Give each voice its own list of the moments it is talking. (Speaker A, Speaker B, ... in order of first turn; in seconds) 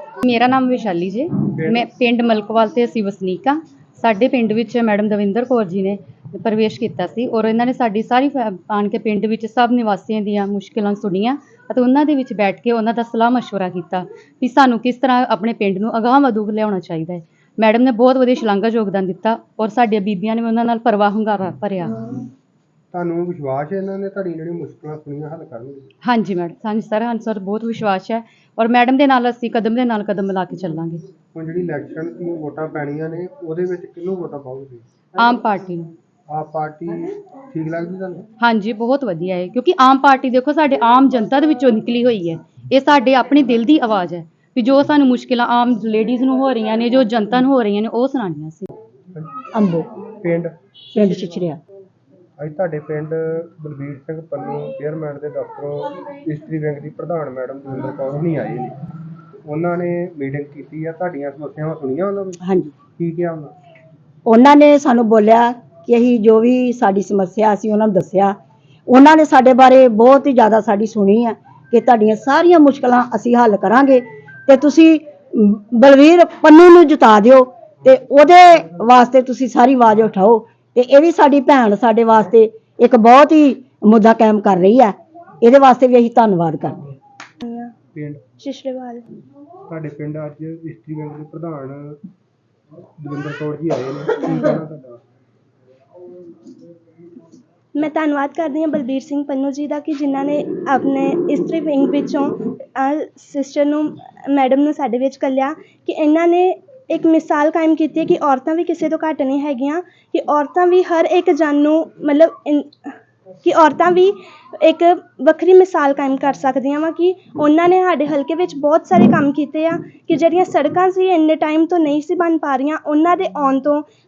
Speaker A: 0.2-22.2, 26.0-31.0, 35.2-35.9, 38.4-48.7
Speaker B: 1.6-1.9, 22.9-25.9, 31.3-34.8, 36.3-38.2, 50.2-50.5, 52.4-58.7, 59.5-63.5, 87.9-88.2, 89.7-91.9, 93.0-95.0
Speaker C: 49.5-49.9, 50.9-51.6, 62.4-62.7, 64.3-68.3, 68.9-86.8
Speaker D: 87.4-87.7, 88.4-89.0, 97.7-112.9, 113.4-123.8